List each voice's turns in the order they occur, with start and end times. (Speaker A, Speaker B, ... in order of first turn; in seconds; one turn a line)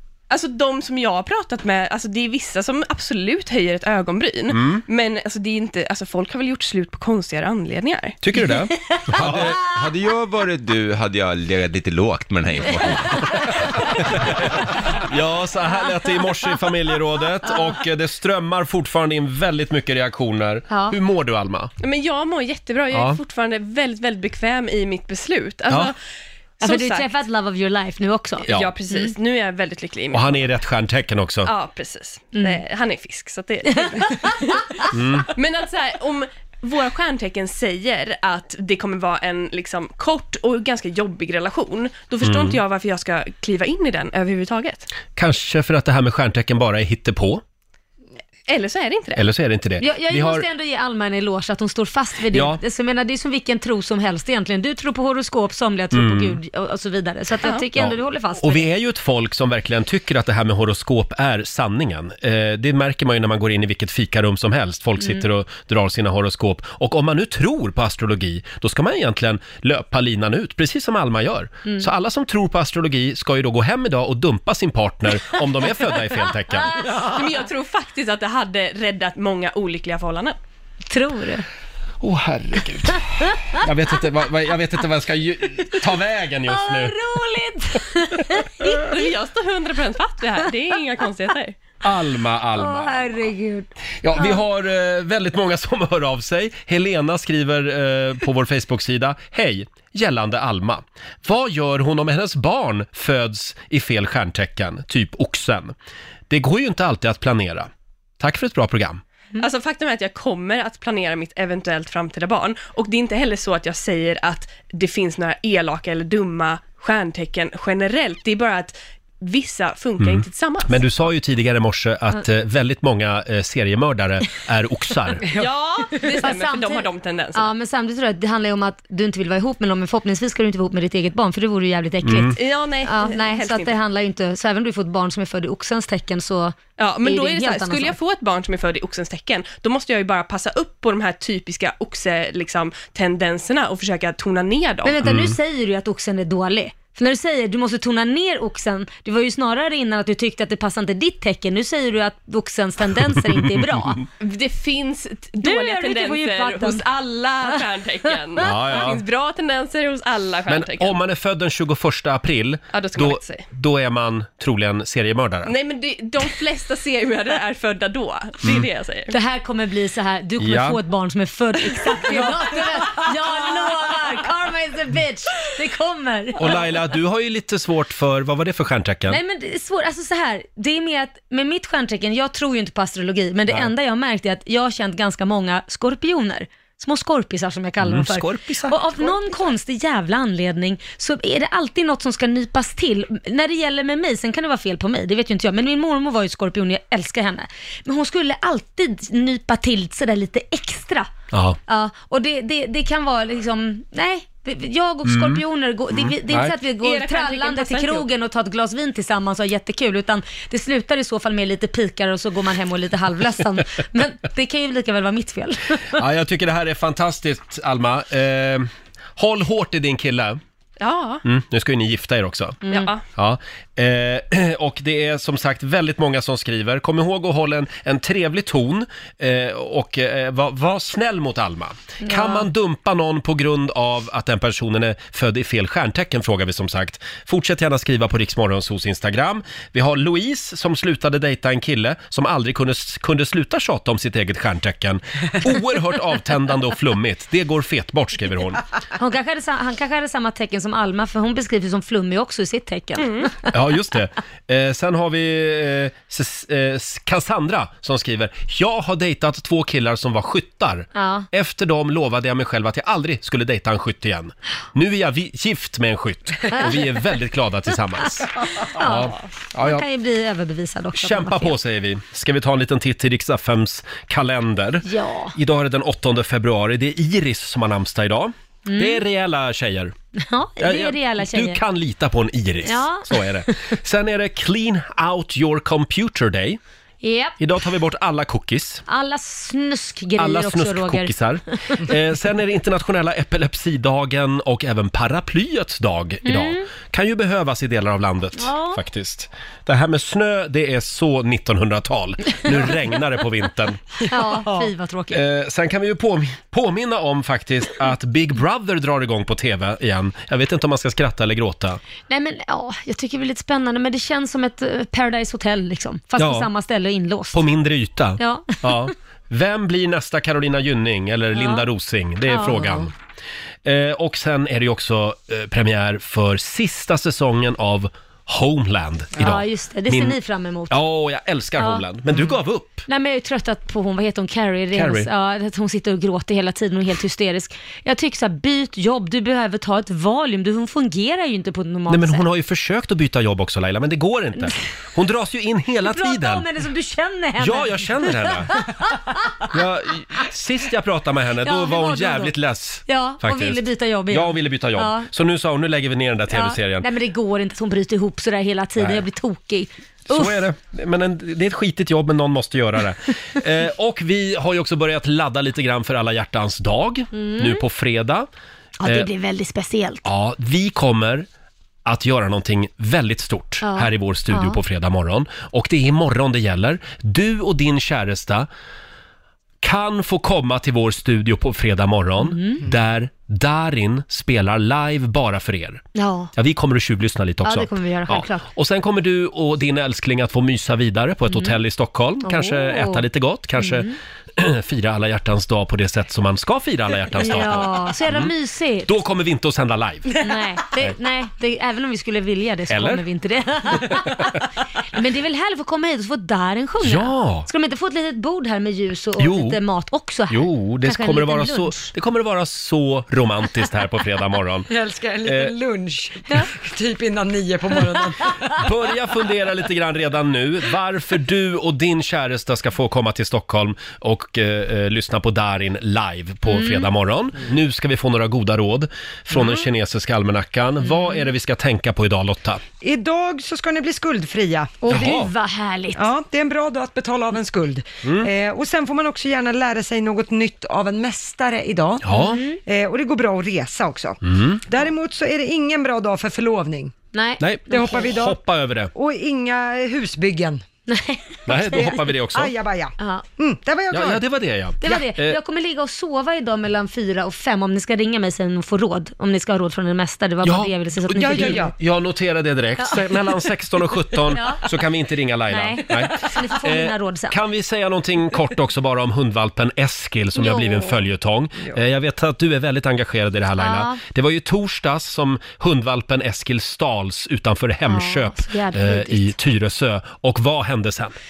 Speaker A: 0.3-8.2
Speaker B: 4.5-4.8
Speaker B: 8.2-9.5
Speaker C: 9.1-14.4
Speaker B: 13.9-21.7
Speaker D: 20.7-20.9
Speaker A: 21.8-25.9
Speaker B: 22.9-23.2
Speaker A: 26.6-27.1
Speaker D: 26.6-29.1
Speaker A: 28.4-30.4
Speaker B: 28.5-28.7
Speaker B: 30.1-31.5
Speaker A: 31.4-44.9
Speaker B: 34.9-35.3
Speaker B: 42.2-42.6
Speaker B: 45.1-47.4
Speaker A: 48.5-49.2
Speaker B: 49.1-50.4
Speaker D: 49.8-58.7
Speaker B: 52.3-52.6
Speaker B: 55.9-56.4
Speaker B: 57.8-76.7
Speaker D: 65.0-65.2
Speaker A: 76.9-80.4
Speaker D: 80.9-81.5
Speaker B: 82.0-87.0
Speaker D: 86.5-88.9
Speaker A: 88.8-91.6
Speaker B: 91.8-93.0
Speaker D: 92.5-94.4
Speaker B: 94.0-105.7
Speaker B: 106.3-107.7
Speaker B: 108.2-109.0
Speaker A: 109.4-120.8
Speaker B: 120.0-125.3
Speaker A: 125.3-127.5
Speaker D: 126.2-138.0
Speaker B: 132.0-132.4
Speaker A: 132.3-133.8
Speaker A: 136.8-145.0
Speaker D: 144.8-154.0
Speaker B: 145.0-145.3
Speaker A: 154.2-160.9
Speaker D: 155.4-156.8
Speaker B: 158.4-159.0
Speaker B: 160.5-165.5
Speaker A: 162.7-163.4
Speaker A: 165.4-169.1
Speaker D: 169.1-176.6
Speaker B: 170.4-170.8
Speaker A: 173.0-173.9
Speaker B: 176.4-179.2
Speaker D: 179.1-201.1
Speaker B: 187.8-189.2
Speaker B: 201.3-201.6
Speaker D: 201.7-216.0
Speaker B: 205.1-205.4
Speaker B: 205.9-206.5
Speaker A: 206.8-208.0
Speaker B: 215.9-220.4
Speaker A: 220.8-221.2
Speaker B: 221.2-222.6
Speaker D: 222.6-222.9
Speaker A: 222.7-223.0
Speaker B: 223.1-248.6
Speaker D: 232.0-232.4
Speaker D: 248.9-253.5
Speaker A: 253.0-253.3
Speaker B: 253.5-269.8
Speaker D: 260.9-261.3
Speaker D: 266.5-267.1
Speaker D: 268.5-271.6
Speaker B: 270.9-279.9
Speaker D: 274.9-275.3
Speaker D: 278.6-279.0
Speaker D: 280.2-281.6
Speaker B: 280.6-286.6
Speaker D: 282.6-283.2
Speaker D: 287.0-287.4
Speaker B: 287.4-288.8
Speaker D: 288.9-291.1
Speaker B: 290.2-303.8
Speaker D: 296.2-296.7
Speaker D: 298.4-298.8
Speaker D: 304.0-305.2
Speaker E: 304.2-304.7
Speaker B: 305.1-311.8
Speaker D: 312.1-317.4
Speaker B: 316.2-316.5
Speaker B: 317.3-322.9
Speaker D: 318.2-318.9
Speaker D: 321.3-321.7
Speaker D: 322.2-322.9
Speaker B: 323.6-330.2
Speaker D: 329.2-330.8
Speaker B: 330.7-332.8
Speaker D: 331.6-331.8
Speaker D: 332.9-342.2
Speaker B: 334.7-335.1
Speaker B: 341.9-346.4
Speaker D: 345.9-349.5
Speaker B: 347.4-348.6
Speaker B: 349.5-356.8
Speaker D: 351.4-352.3
Speaker D: 352.9-355.1
Speaker D: 356.3-360.4
Speaker B: 358.8-359.0
Speaker B: 360.1-368.3
Speaker D: 367.1-367.6
Speaker D: 368.8-370.0
Speaker B: 370.0-371.3
Speaker B: 371.8-378.5
Speaker D: 373.6-374.6
Speaker B: 379.6-385.8
Speaker D: 382.2-382.6
Speaker D: 385.9-386.3
Speaker B: 386.3-398.3
Speaker D: 387.4-388.5
Speaker D: 391.3-391.6
Speaker D: 392.2-393.0
Speaker D: 393.6-393.9
Speaker D: 397.1-398.9
Speaker B: 398.9-400.1
Speaker D: 400.2-404.3
Speaker B: 402.7-403.0
Speaker D: 404.9-411.9
Speaker B: 406.8-407.5
Speaker B: 409.2-409.6
Speaker B: 410.3-414.7
Speaker E: 414.7-418.7
Speaker B: 415.2-415.5
Speaker B: 418.6-432.6
Speaker D: 426.4-426.9
Speaker D: 430.8-431.3
Speaker E: 432.8-435.0
Speaker D: 434.8-436.1
Speaker B: 434.9-435.3
Speaker E: 435.9-446.9
Speaker B: 438.0-438.3
Speaker B: 442.0-442.4
Speaker D: 442.1-442.6
Speaker B: 444.2-444.6
Speaker D: 447.1-448.0
Speaker B: 447.4-448.9
Speaker E: 447.7-448.4
Speaker E: 448.9-450.6
Speaker D: 450.9-452.0
Speaker B: 451.5-452.5
Speaker E: 452.3-454.2
Speaker D: 453.0-453.2
Speaker B: 453.9-455.4
Speaker D: 454.8-461.7
Speaker B: 460.4-481.1
Speaker E: 461.1-461.7
Speaker D: 462.8-463.0
Speaker D: 464.3-464.7
Speaker D: 465.5-467.4
Speaker D: 470.3-471.0
Speaker D: 473.6-474.0
Speaker D: 477.9-479.3